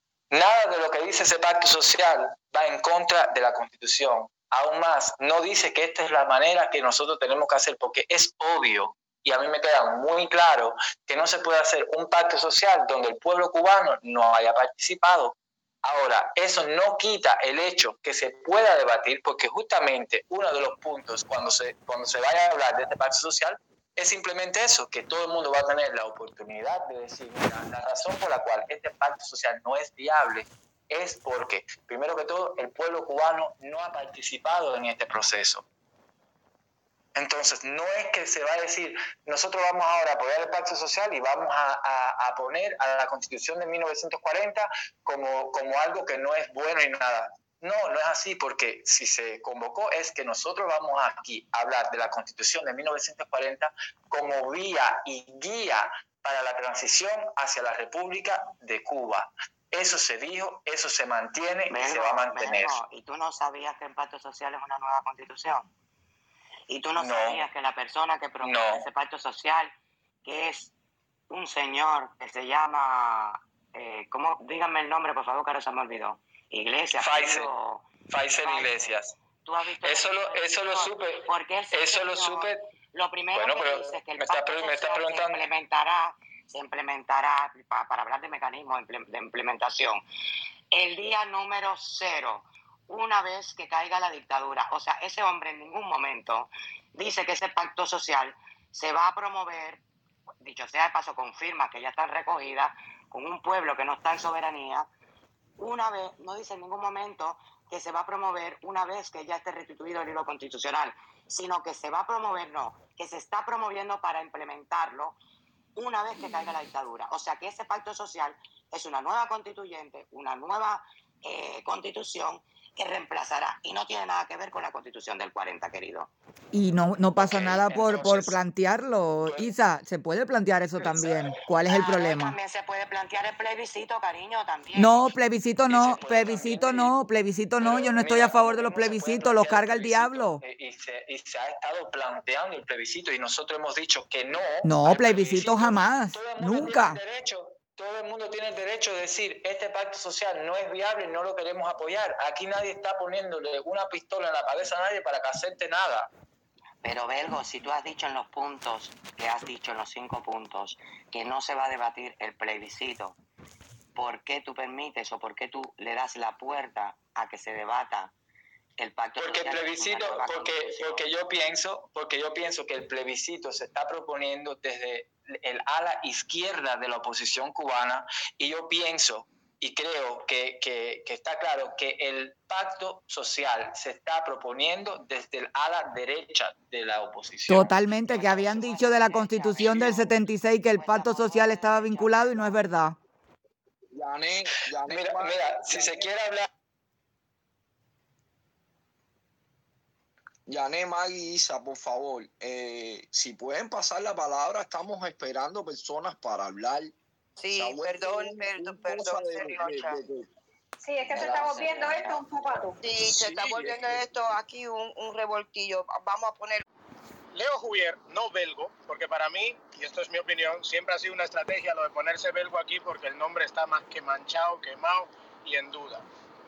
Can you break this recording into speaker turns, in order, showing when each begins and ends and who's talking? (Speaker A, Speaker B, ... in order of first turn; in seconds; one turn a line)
Speaker A: 0.3-35.6
Speaker A: 37.1-62.8
Speaker B: 61.7-65.7
Speaker B: 66.7-69.7
Speaker A: 67.0-67.4
Speaker A: 68.4-68.8
Speaker B: 70.2-70.7
Speaker B: 71.3-90.0
Speaker A: 77.0-77.5
Speaker A: 78.1-79.1
Speaker A: 79.8-82.6
Speaker A: 83.3-85.4
Speaker B: 90.7-99.8
Speaker B: 100.4-104.9
Speaker B: 105.6-115.2
Speaker B: 115.7-126.1
Speaker C: 126.5-132.3
Speaker A: 127.2-128.3
Speaker B: 131.6-135.1
Speaker C: 134.8-140.4
Speaker A: 135.7-136.9
Speaker A: 137.6-156.1
Speaker C: 144.6-147.0
Speaker B: 156.8-163.2
Speaker B: 163.9-168.1
Speaker B: 168.8-171.1
Speaker A: 169.2-187.7
Speaker C: 187.5-193.0
Speaker B: 188.1-192.6
Speaker D: 193.9-196.2
Speaker A: 194.9-196.5
Speaker D: 200.5-206.9
Speaker E: 207.4-210.0
Speaker D: 207.5-210.3
Speaker F: 210.8-212.8
Speaker D: 211.1-211.9
Speaker B: 211.6-212.0
Speaker E: 212.8-216.6
Speaker D: 213.0-214.0
Speaker G: 217.3-226.0